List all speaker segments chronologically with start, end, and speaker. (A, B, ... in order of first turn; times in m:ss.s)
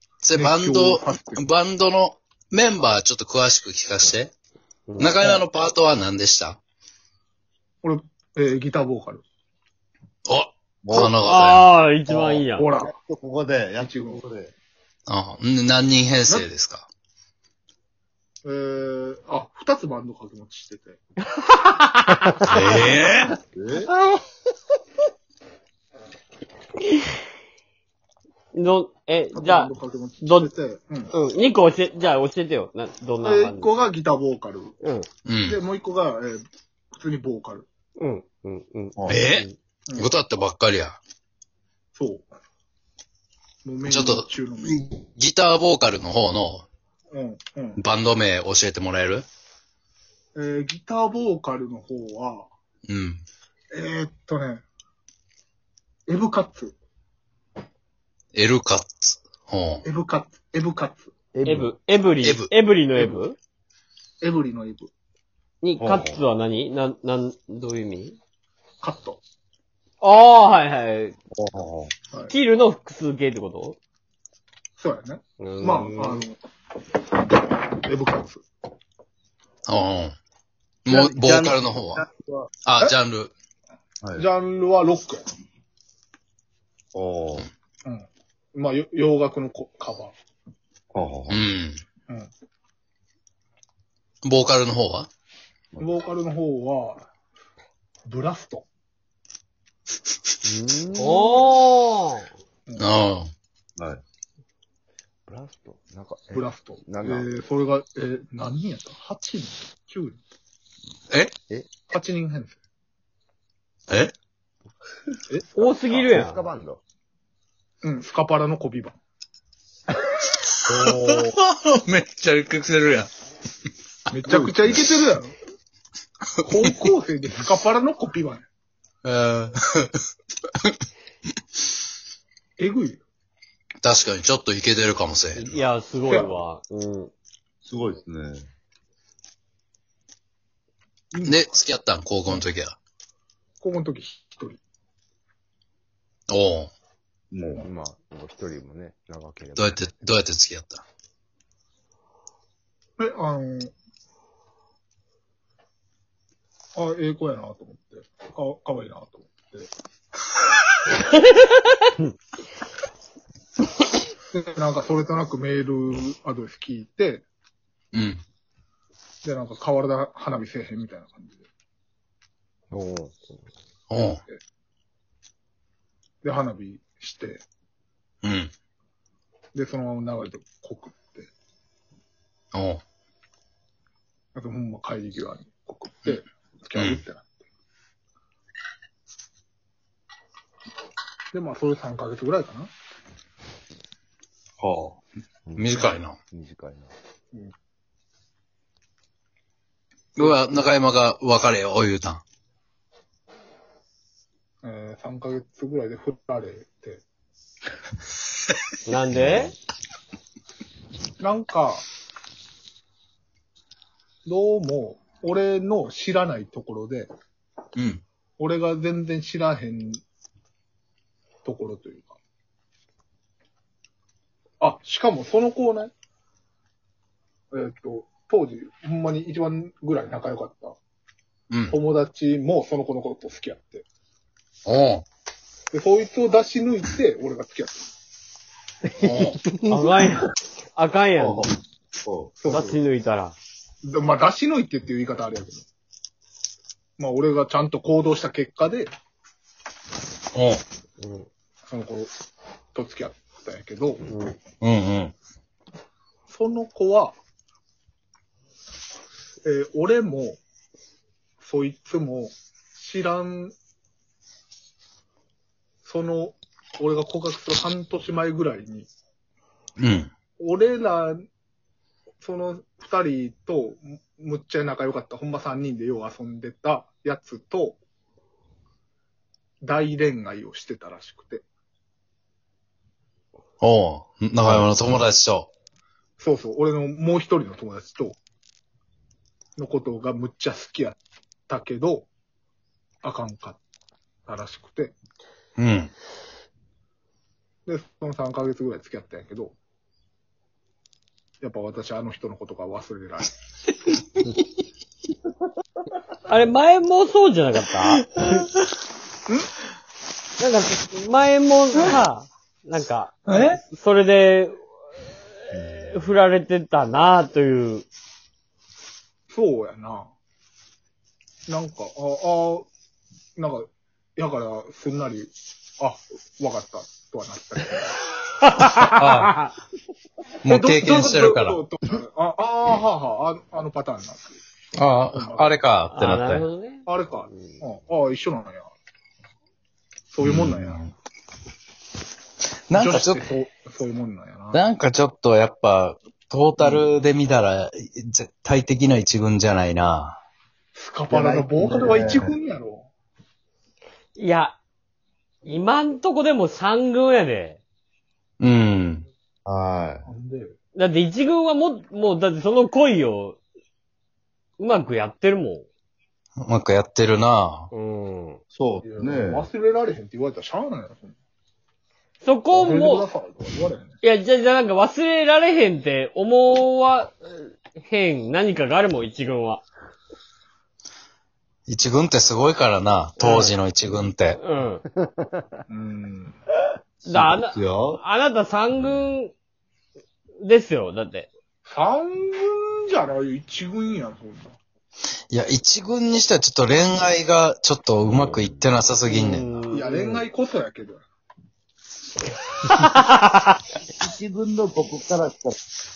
0:00.2-0:04.3 A
0:00.3-0:01.5 B
0:05.0-0:06.6 A
0:07.8-0:09.2 B
0:10.2-0:11.7 A
0:10.8-0:11.2 C
0:10.9-0:12.7 D
0:12.1-0:14.5 C
0:12.6-0:12.9 B
0:13.8-0:14.2 B
0:15.1-0:16.9 A
0:18.4-0:21.0 B
0:21.4-0:22.5 D
0:22.4-0:23.4 A
0:23.5-0:23.9 C
0:28.5-0:30.5 D
0:29.3-0:31.1 B
0:31.1-0:33.8 D
0:33.2-0:34.8 B
0:34.8-0:35.1 D
0:35.2-0:35.6 A
0:35.4-0:37.6 B
0:38.0-0:39.5 D
0:39.0-0:39.2 C
0:39.1-0:41.0 A
0:41.9-0:42.3 B
0:43.6-0:44.8 B
0:43.9-0:46.6 A
0:47.1-0:47.8 B
0:47.8-0:49.2 A
0:50.3-0:52.5 B
0:52.8-0:53.2 A
0:53.7-0:54.6 B
0:56.1-0:56.7 B
0:58.3-0:59.8 A
0:59.8-1:01.1 B
1:01.3-1:01.7 E
1:01.4-1:03.4 D
1:02.2-1:02.5 A
1:04.2-1:04.9 B
1:05.6-1:08.2 D
1:05.8-1:06.2 C
1:08.8-1:09.2 B
1:10.0-1:11.1 D
1:11.3-1:11.9 C
1:12.3-1:13.8 D
1:14.8-1:16.4 B
1:15.4-1:16.2 D
1:17.3-1:18.4 B
1:19.6-1:20.2 A
1:20.8-1:22.0 A
1:20.9-1:22.0 B
1:22.6-1:23.3 A
1:24.0-1:24.3 C
1:24.2-1:25.3 B
1:26.9-1:27.5 C
1:27.8-1:30.1 B
1:30.9-1:31.4 C
1:31.3-1:31.8 A
1:34.2-1:35.1 A
1:35.8-1:37.0 B
1:38.1-1:38.6 B
1:40.4-1:41.5 E
1:41.0-1:42.3 D
1:42.8-1:43.3 A
1:43.8-1:44.0 C
1:45.3-1:47.3 E
1:46.3-1:50.2 B
1:51.9-1:52.6 B
1:55.3-1:55.6 B
1:55.5-1:56.4 D
1:56.0-1:56.8 E
1:57.8-1:59.0 B
2:00.6-2:03.1 A
2:00.7-2:01.3 B
2:04.1-2:05.3 B
2:04.3-2:04.9 C
2:06.4-2:08.4 B
2:09.0-2:10.0 A
2:12.6-2:13.0 B
2:13.8-2:15.6 A
2:15.3-2:17.1 D
2:16.0-2:16.4 B
2:17.6-2:18.5 C
2:21.1-2:21.4 B
2:21.2-2:22.8 A
2:23.6-2:24.6 B
2:26.3-2:26.7 A
2:27.3-2:27.7 C
2:27.6-2:30.1 E
2:29.6-2:30.8 A
2:33.0-2:33.7 B
2:36.8-2:39.7 B
2:41.0-2:41.5 D
2:44.3-2:47.2 B
2:47.9-2:48.2 A
2:49.2-2:51.4 B
2:52.7-2:53.2 E
2:53.9-2:54.2 A
2:56.2-2:57.4 B
2:58.2-2:58.5 A
2:59.5-3:01.3 B
3:02.5-3:02.8 A
3:04.3-3:07.3 B
3:06.7-3:07.0 A
3:11.3-3:12.7 B
3:14.6-3:15.0 C
3:15.5-3:16.9 E
3:15.6-3:16.2 A
3:20.2-3:22.2 A
3:20.2-3:20.6 B
3:24.6-3:27.0 B
3:28.8-3:29.5 D
3:31.2-3:31.8 B
3:34.2-3:37.1 B
3:37.8-3:38.0 A
3:38.4-3:40.0 B
3:41.4-3:42.2 B
3:44.6-3:45.9 B
3:47.5-3:50.8 B
3:51.5-3:51.8 A
3:51.7-3:53.8 B
3:54.6-3:55.0 A
3:55.7-3:57.8 B
3:59.0-3:59.4 A
3:59.6-4:01.5 D
4:01.2-4:01.5 C
4:02.0-4:02.3 C
4:02.4-4:02.8 B
4:02.5-4:03.4 D
4:03.8-4:05.6 B
4:07.0-4:08.9 B
4:10.3-4:10.6 A
4:11.0-4:11.3 D
4:11.7-4:12.1 B
4:12.7-4:14.1 B
4:14.1-4:14.4 D
4:14.6-4:15.1 A
4:16.3-4:17.1 B
4:19.4-4:20.4 B
4:21.4-4:23.5 B
4:25.8-4:28.9 B
4:29.8-4:30.1 A
4:30.4-4:31.2 B
4:32.2-4:37.8 B
4:39.6-4:41.4 B
4:43.6-4:45.5 A
4:44.4-4:44.8 C
4:46.2-4:48.2 B
4:49.6-4:51.0 B
4:51.5-4:52.1 B
4:53.0-4:53.6 B
4:54.3-4:55.0 B
4:55.6-4:55.9 A
4:57.6-4:59.5 B
5:01.4-5:03.3 B
5:06.2-5:08.4 D
5:10.4-5:14.6 D
5:13.3-5:13.6 A
5:15.5-5:17.8 D
5:19.3-5:20.1 B
5:21.5-5:22.7 B
5:23.4-5:28.0 B
5:28.4-5:29.5 D
5:28.9-5:29.4 A
5:30.4-5:31.6 A
5:30.4-5:34.4 B
5:34.7-5:36.4 A
5:35.0-5:35.6 B
5:35.9-5:37.6 D
5:36.8-5:38.7 B
5:40.1-5:40.9 B
5:40.2-5:40.9 A
5:42.7-5:43.2 A
5:42.7-5:44.6 B
5:44.5-5:50.2 A
5:50.7-5:52.9 B
5:51.1-5:52.3 C
5:54.2-5:54.6 D
5:55.4-5:57.6 D
5:58.4-5:59.0 A
5:59.4-6:00.1 C
6:00.0-6:00.5 B
6:00.7-6:03.4 D
6:04.6-6:05.7 D
6:06.4-6:07.7 A
6:07.7-6:08.4 D
6:08.5-6:09.5 C
6:08.8-6:11.1 B
6:12.2-6:13.1 D
6:12.5-6:14.0 B
6:14.0-6:19.6 D
6:21.7-6:24.4 A
6:23.2-6:23.6 D
6:24.4-6:24.8 D
6:25.0-6:25.3 E
6:25.7-6:26.4 B
6:27.0-6:29.3 D
6:27.1-6:28.0 C
6:30.4-6:31.3 D
6:31.6-6:34.6 B
6:35.3-6:39.5 A
6:38.1-6:38.8 E
6:39.1-6:40.2 D
6:39.7-6:41.0 B
6:42.7-6:43.5 D
6:44.0-6:45.6 C